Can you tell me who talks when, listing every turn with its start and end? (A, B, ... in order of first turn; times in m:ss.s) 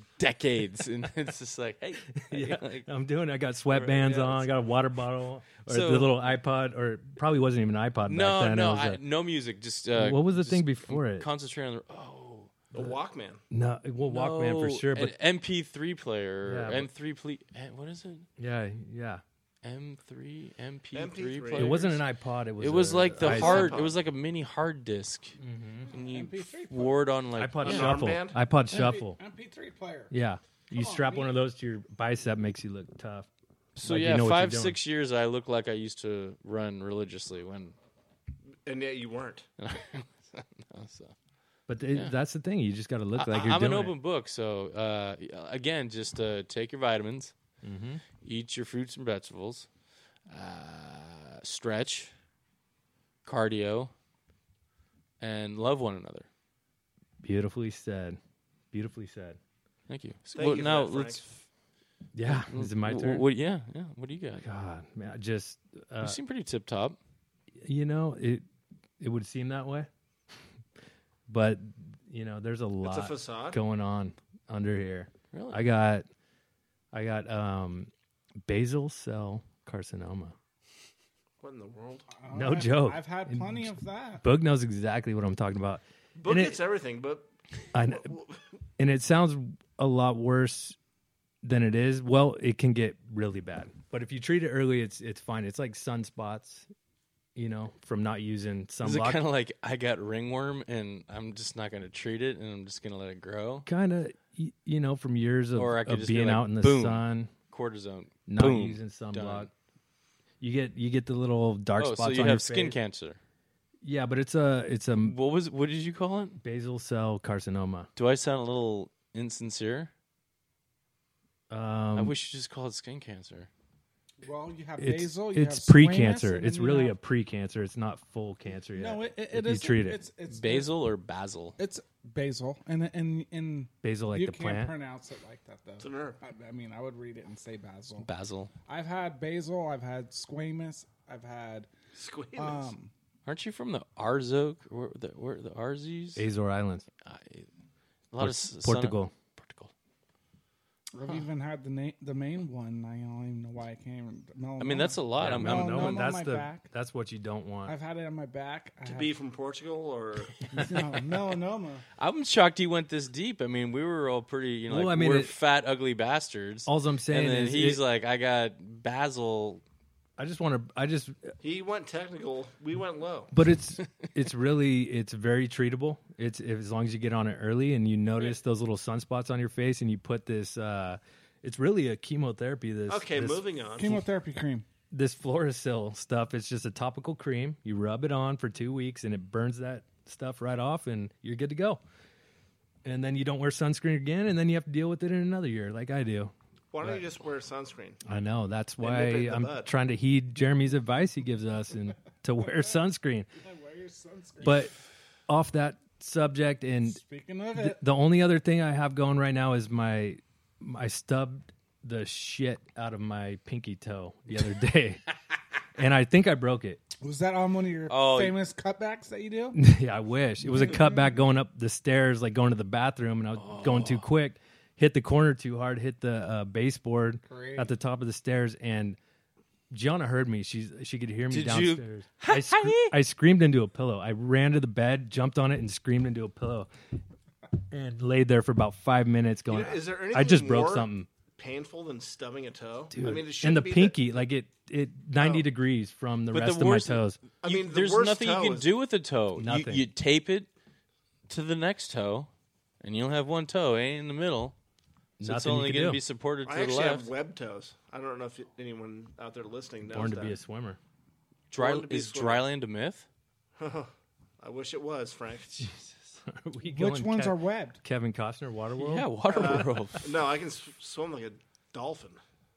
0:00.2-0:02.9 A
0:02.2-0:09.0 B
0:03.7-0:04.5 A
0:05.7-0:06.1 A
0:08.1-0:12.9 A
0:09.9-0:11.3 B
0:12.7-0:13.4 C
0:13.5-0:15.1 B
0:14.0-0:18.3 A
0:16.4-0:16.9 B
0:18.4-0:19.2 B
0:19.6-0:22.0 A
0:20.9-0:21.9 C
0:21.5-0:23.8 B
0:22.6-0:25.4 A
0:23.2-0:24.0 C
0:25.4-0:25.9 B
0:25.9-0:27.0 D
0:25.9-0:28.1 A
0:27.4-0:29.2 B
0:27.6-0:28.4 C
0:28.7-0:30.1 D
0:30.1-0:33.3 B
0:30.7-0:31.3 D
0:33.8-0:37.7 A
0:33.8-0:34.8 B
0:38.6-0:39.5 C
0:39.6-0:41.1 A
0:41.7-0:43.9 B
0:43.2-0:47.3 A
0:47.6-0:48.0 B
0:48.2-0:49.7 A
0:50.3-0:52.1 A
0:53.2-0:53.9 A
0:55.2-0:56.3 A
0:57.2-0:58.2 B
0:58.7-0:59.4 B
0:59.9-1:01.4 A
1:00.3-1:01.2 C
1:02.1-1:03.2 B
1:02.2-1:04.4 A
1:04.4-1:06.2 B
1:06.0-1:07.0 A
1:07.6-1:08.4 B
1:09.0-1:09.9 B
1:11.3-1:16.0 B
1:12.8-1:13.6 C
1:15.3-1:15.6 A
1:16.9-1:17.9 B
1:18.5-1:20.3 B
1:21.4-1:22.1 C
1:22.2-1:24.2 D
1:22.3-1:26.6 B
1:26.2-1:27.3 C
1:27.7-1:28.1 B
1:27.8-1:28.4 C
1:28.8-1:30.8 B
1:31.4-1:36.7 B
1:37.4-1:39.2 B
1:38.8-1:43.7 A
1:43.6-1:47.3 B
1:45.6-1:49.5 A
1:48.3-1:49.5 B
1:50.4-1:52.8 B
1:51.8-1:53.2 A
1:53.8-1:55.2 B
1:55.0-1:56.4 A
1:56.4-1:57.9 B
1:58.0-1:59.9 A
2:01.5-2:02.1 B
2:02.0-2:03.5 A
2:04.2-2:06.9 D
2:04.8-2:10.0 B
2:08.7-2:10.7 D
2:10.3-2:11.6 A
2:11.6-2:18.1 D
2:13.8-2:14.7 B
2:15.8-2:16.2 C
2:18.0-2:18.5 A
2:18.6-2:21.7 D
2:21.9-2:22.7 C
2:22.4-2:22.9 D
2:23.2-2:26.2 A
2:26.2-2:26.8 B
2:27.0-2:27.5 A
2:28.1-2:29.7 A
2:28.2-2:29.1 B
2:30.9-2:36.6 D
2:34.6-2:36.0 A
2:35.2-2:37.7 B
2:37.6-2:39.1 D
2:38.8-2:40.4 C
2:40.5-2:41.8 D
2:42.0-2:49.6 A
2:44.7-2:45.3 B
2:46.6-2:47.8 B
2:50.2-2:51.3 B
2:51.4-2:53.3 C
2:53.3-3:03.4 B
3:02.9-3:04.0 C
3:03.8-3:04.6 D
3:04.9-3:11.8 B
3:12.8-3:17.0 B
3:16.7-3:18.0 C
3:18.0-3:23.3 B
3:18.8-3:19.7 C
3:23.4-3:24.7 D
3:24.4-3:24.7 B
3:25.3-3:27.0 B
3:26.8-3:27.8 D
3:27.5-3:35.0 B
3:35.8-3:36.8 B
3:37.0-3:39.6 D
3:37.9-3:38.4 A
3:39.5-3:49.0 B
3:40.5-3:41.2 D
3:43.4-3:44.1 A
3:47.3-3:47.7 D
3:49.7-3:56.7 B
3:51.3-3:53.0 A
3:57.7-4:01.1 B
3:59.5-4:04.0 C
4:02.9-4:07.2 B
4:05.2-4:05.4 C
4:06.3-4:10.5 A
4:07.4-4:08.7 C
4:09.4-4:09.8 B
4:11.3-4:12.3 A
4:12.8-4:14.5 A
4:15.2-4:16.0 B
4:15.2-4:17.1 A
4:16.4-4:20.4 C
4:19.9-4:20.8 B
4:21.5-4:23.0 A
4:21.5-4:22.5 C
4:23.6-4:25.6 C
4:25.6-4:29.1 B
4:26.6-4:27.8 D
4:28.8-4:30.0 A
4:29.3-4:32.2 C